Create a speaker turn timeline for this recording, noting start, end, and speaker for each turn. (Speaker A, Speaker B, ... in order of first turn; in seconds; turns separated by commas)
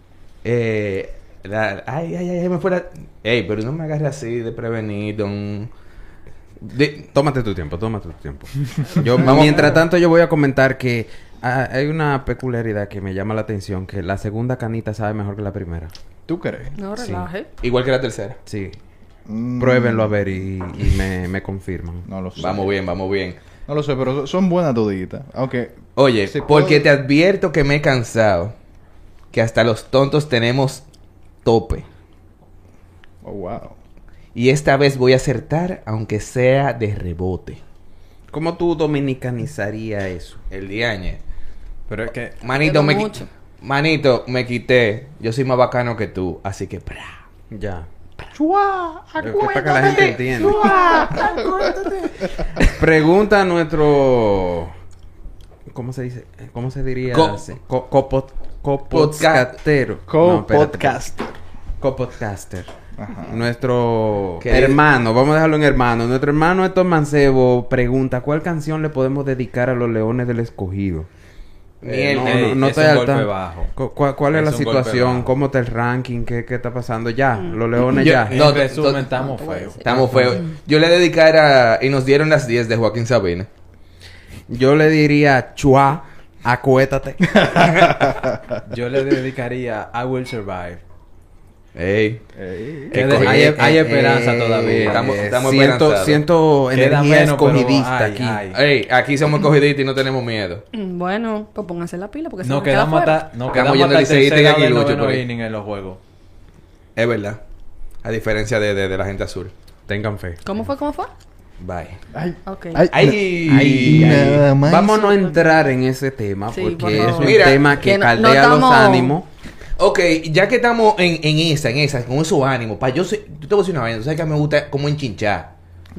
Speaker A: 0.4-5.7, Speaker A: 6.6-7.1, Speaker B: 7.1-15.9, Speaker A: 9.1-9.8, Speaker C: 9.2-9.5, Speaker C: 16.3-16.8, Speaker D: 16.8-17.5, Speaker B: 16.9-17.3, Speaker A: 17.6-18.4, Speaker B: 18.4-18.8, Speaker C: 19.3-20.3, Speaker B: 19.6-22.1, Speaker C: 22.1-22.7, Speaker A: 22.4-23.4, Speaker C: 23.7-25.8, Speaker A: 25.9-28.5, Speaker C: 26.3-26.9, Speaker A: 29.3-30.8, Speaker A: 31.4-31.9, Speaker C: 33.2-33.8, Speaker A: 34.3-37.6, Speaker B: 38.3-40.4, Speaker A: 40.5-41.2, Speaker E: 41.9-42.4, Speaker A: 42.4-47.2, Speaker D: 42.6-43.3, Speaker B: 47.5-47.9, Speaker C: 48.3-52.4, Speaker B: 49.2-50.8, Speaker A: 49.2-52.6, Speaker D: 50.8-51.1, Speaker B: 52.7-54.7, Speaker B: 55.7-61.0, Speaker A: 57.1-57.5, Speaker A: 58.9-59.5, Speaker C: 60.1-61.4, Speaker B: 61.8-62.7, Speaker C: 63.0-63.5, Speaker B: 63.2-71.1, Speaker A: 64.4-64.8, Speaker A: 71.8-72.6, Speaker B: 71.8-78.5, Speaker E: 72.2-73.7, Speaker E: 74.3-75.3, Speaker A: 77.9-79.2, Speaker E: 78.3-80.4, Speaker D: 79.3-79.8, Speaker A: 79.8-83.5, Speaker B: 84.5-87.6, Speaker C: 87.5-88.1, Speaker A: 87.7-87.9, Speaker E: 88.7-90.8, Speaker A: 91.7-92.2, Speaker C: 92.3-93.0, Speaker A: 92.9-93.5, Speaker E: 92.9-95.2, Speaker B: 93.0-98.4, Speaker A: 94.7-96.2, Speaker E: 96.7-98.6, Speaker A: 98.5-100.6, Speaker D: 100.7-103.2, Speaker E: 102.4-106.0, Speaker A: 103.5-105.2, Speaker A: 107.0-107.4, Speaker A: 108.0-109.5, Speaker B: 109.9-110.4, Speaker D: 110.4-111.1, Speaker A: 111.6-112.0, Speaker C: 112.1-115.0, Speaker D: 112.5-112.9, Speaker A: 112.9-114.5, Speaker D: 113.7-115.5, Speaker B: 114.6-119.3, Speaker D: 116.5-119.1, Speaker A: 117.0-117.7, Speaker A: 119.8-125.5